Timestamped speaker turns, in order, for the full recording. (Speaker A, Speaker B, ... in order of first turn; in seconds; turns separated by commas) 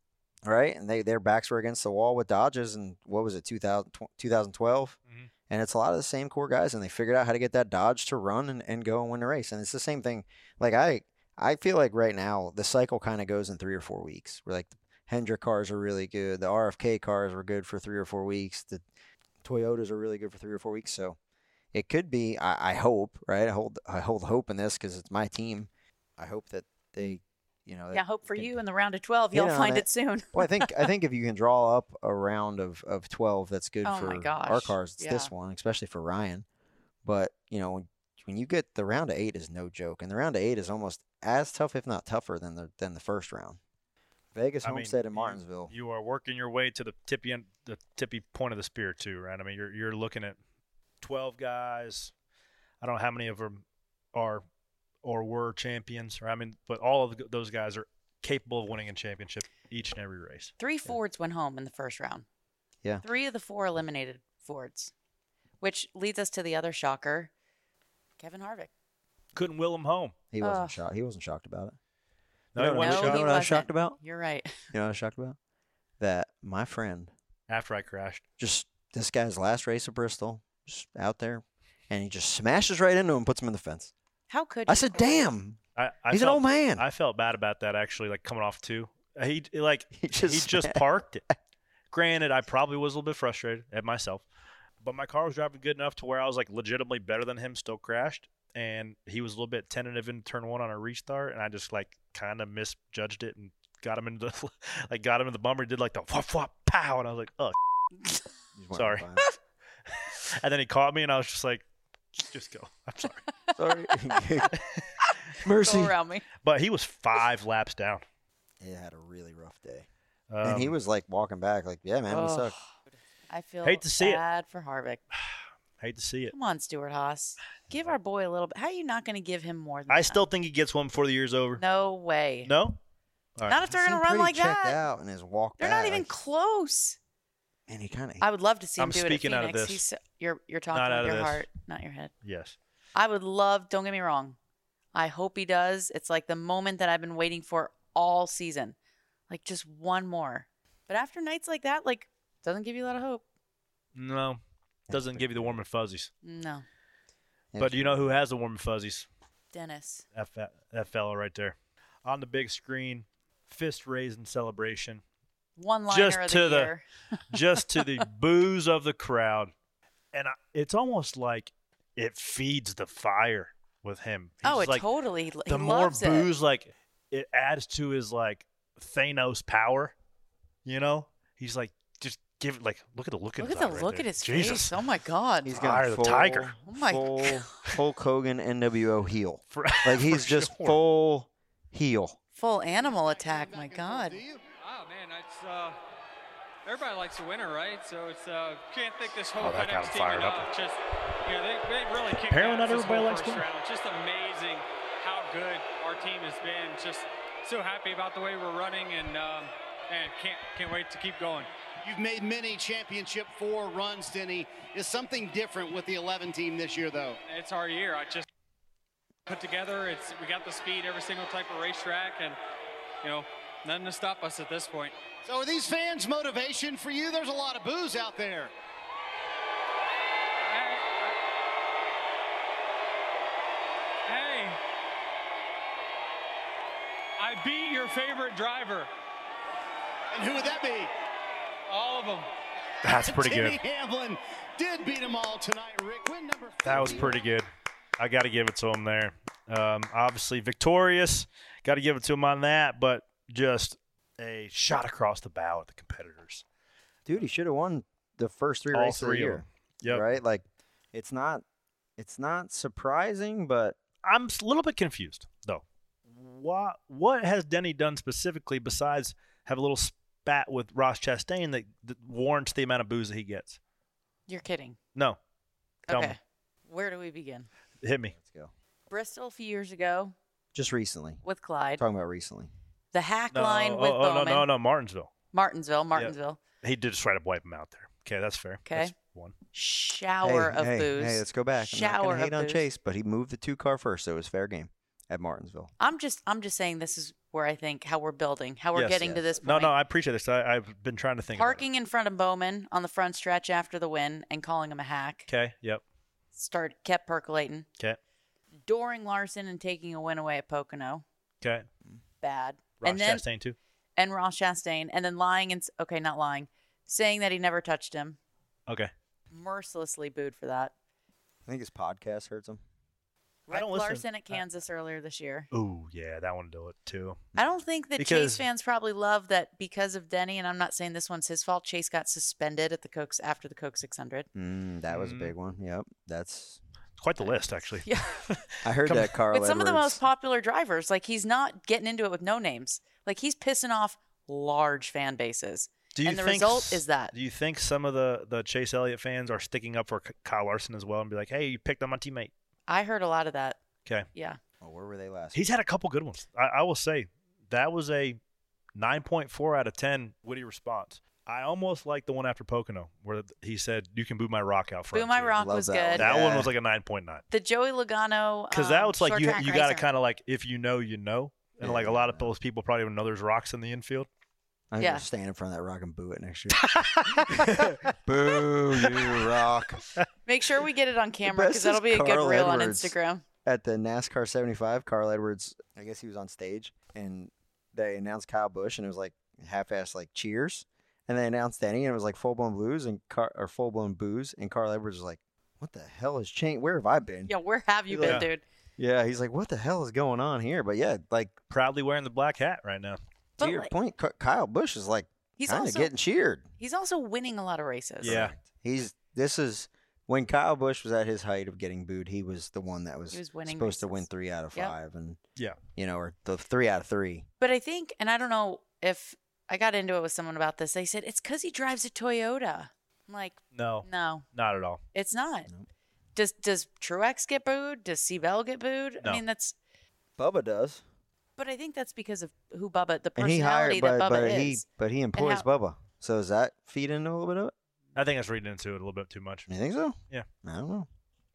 Speaker A: 0.5-5.0, Speaker A: 5.5-18.8, Speaker A: 19.4-21.2, Speaker A: 21.7-28.6, Speaker B: 27.9-30.9, Speaker A: 29.3-36.5, Speaker B: 33.9-35.3, Speaker A: 37.0-43.6, Speaker A: 44.3-45.7, Speaker C: 44.6-50.4, Speaker C: 51.0-52.1, Speaker C: 52.8-53.6, Speaker C: 54.1-54.4, Speaker C: 55.0-60.5, Speaker B: 60.6-62.3, Speaker B: 63.0-64.9, Speaker B: 65.6-67.3, Speaker B: 68.2-68.7, Speaker C: 69.3-70.2, Speaker A: 70.3-71.8, Speaker B: 70.4-70.8, Speaker C: 72.5-73.5, Speaker A: 72.6-74.0, Speaker B: 72.8-74.6, Speaker A: 74.7-75.4, Speaker A: 76.0-77.1, Speaker C: 77.5-78.2, Speaker A: 78.4-83.9, Speaker B: 84.3-85.3, Speaker A: 84.7-86.8, Speaker C: 85.8-91.2, Speaker A: 90.0-90.8, Speaker C: 91.9-94.2, Speaker C: 94.8-107.5, Speaker A: 108.6-109.3, Speaker C: 108.8-109.0, Speaker C: 110.0-111.7, Speaker C: 112.2-113.2, Speaker A: 113.6-114.5, Speaker A: 115.4-116.0, Speaker B: 115.6-116.3, Speaker C: 116.4-118.0, Speaker A: 118.6-119.9, Speaker C: 120.3-120.7, Speaker A: 120.4-122.5, Speaker B: 122.1-122.6, Speaker B: 123.3-125.0, Speaker C: 123.6-124.2, Speaker C: 125.8-126.3, Speaker B: 126.3-130.2, Speaker C: 129.9-131.6, Speaker B: 131.6-132.5, Speaker C: 132.4-132.8, Speaker B: 133.5-134.8, Speaker A: 133.6-136.1, Speaker B: 135.6-137.0, Speaker A: 137.7-138.2, Speaker B: 138.2-142.1, Speaker C: 138.8-139.8, Speaker C: 140.7-141.5, Speaker C: 142.2-142.6, Speaker B: 142.9-144.4, Speaker B: 144.9-148.8, Speaker B: 149.3-153.2, Speaker C: 153.9-156.1, Speaker A: 154.9-155.6, Speaker B: 156.2-156.7, Speaker A: 157.5-158.1, Speaker C: 157.6-159.1, Speaker B: 159.5-160.1, Speaker C: 160.2-165.0, Speaker B: 165.6-167.4, Speaker C: 165.9-166.7, Speaker C: 167.3-169.5, Speaker C: 170.1-174.8, Speaker B: 174.4-176.3, Speaker C: 175.5-179.9, Speaker C: 180.7-184.8, Speaker B: 183.4-185.6, Speaker A: 185.4-192.2, Speaker C: 185.5-186.6, Speaker B: 186.7-187.5, Speaker C: 189.5-190.8, Speaker B: 192.3-194.2, Speaker D: 192.8-194.4, Speaker E: 194.6-195.8, Speaker E: 196.7-211.5, Speaker C: 199.4-200.5, Speaker C: 202.3-203.5, Speaker D: 211.8-217.2, Speaker E: 217.2-218.3, Speaker E: 219.3-222.4, Speaker E: 223.0-224.9, Speaker D: 225.2-228.5, Speaker E: 230.4-231.2, Speaker E: 234.1-234.6, Speaker E: 237.2-238.9, Speaker D: 240.1-240.9, Speaker E: 241.7-242.3, Speaker C: 242.8-243.6, Speaker D: 243.1-247.1, Speaker C: 246.7-247.5, Speaker A: 246.7-247.1, Speaker C: 248.0-256.4, Speaker A: 257.1-261.4, Speaker C: 258.7-260.1, Speaker A: 262.0-263.8, Speaker C: 264.1-273.6, Speaker B: 274.3-274.8, Speaker B: 275.9-277.5, Speaker C: 275.9-276.1, Speaker C: 277.8-278.1, Speaker A: 278.1-278.5, Speaker B: 278.9-280.1, Speaker A: 280.5-281.2, Speaker B: 281.2-281.8, Speaker A: 281.8-282.5, Speaker B: 282.9-284.5, Speaker C: 283.3-285.1, Speaker B: 285.3-286.4, Speaker C: 285.9-289.3, Speaker B: 288.7-288.9, Speaker B: 289.5-292.6, Speaker A: 290.2-295.7, Speaker B: 295.8-299.7, Speaker C: 298.8-301.6, Speaker B: 301.4-305.3, Speaker C: 305.3-305.8, Speaker B: 306.4-307.7, Speaker B: 308.7-311.0, Speaker C: 311.4-311.7, Speaker B: 312.2-313.2, Speaker C: 312.8-313.6, Speaker B: 314.0-318.2, Speaker B: 319.3-320.7, Speaker A: 321.5-322.6, Speaker B: 323.5-325.5, Speaker C: 323.5-324.4, Speaker C: 325.5-327.2, Speaker B: 327.4-334.3, Speaker C: 328.0-328.4, Speaker A: 334.4-336.6, Speaker C: 334.9-335.3, Speaker C: 337.0-339.1, Speaker B: 337.9-338.2, Speaker A: 338.6-340.0, Speaker B: 339.3-347.1, Speaker C: 345.9-352.3, Speaker B: 352.7-353.6, Speaker A: 354.6-355.4, Speaker C: 355.3-358.2, Speaker C: 358.8-365.4, Speaker B: 364.9-366.1, Speaker A: 365.4-366.5, Speaker C: 366.0-367.2, Speaker B: 367.3-369.9, Speaker C: 368.5-374.1, Speaker A: 371.6-372.3, Speaker A: 374.7-379.8, Speaker B: 374.8-375.1, Speaker C: 376.5-377.9, Speaker C: 378.8-379.3, Speaker B: 380.3-383.2, Speaker A: 381.2-397.3, Speaker B: 397.3-398.4, Speaker A: 397.9-398.2, Speaker C: 398.0-398.3, Speaker A: 398.8-401.4, Speaker C: 401.5-403.0, Speaker B: 403.4-403.7, Speaker A: 403.4-406.5, Speaker B: 405.4-405.9, Speaker B: 406.6-408.2, Speaker A: 408.0-415.2, Speaker C: 408.0-408.4, Speaker B: 413.1-414.7, Speaker A: 415.8-417.3, Speaker B: 417.4-424.2, Speaker C: 423.5-424.8, Speaker B: 424.9-425.5, Speaker B: 426.2-429.6, Speaker A: 430.2-430.8, Speaker B: 431.4-434.6, Speaker A: 433.2-437.5, Speaker B: 435.2-435.5, Speaker C: 438.0-439.5, Speaker A: 439.5-440.9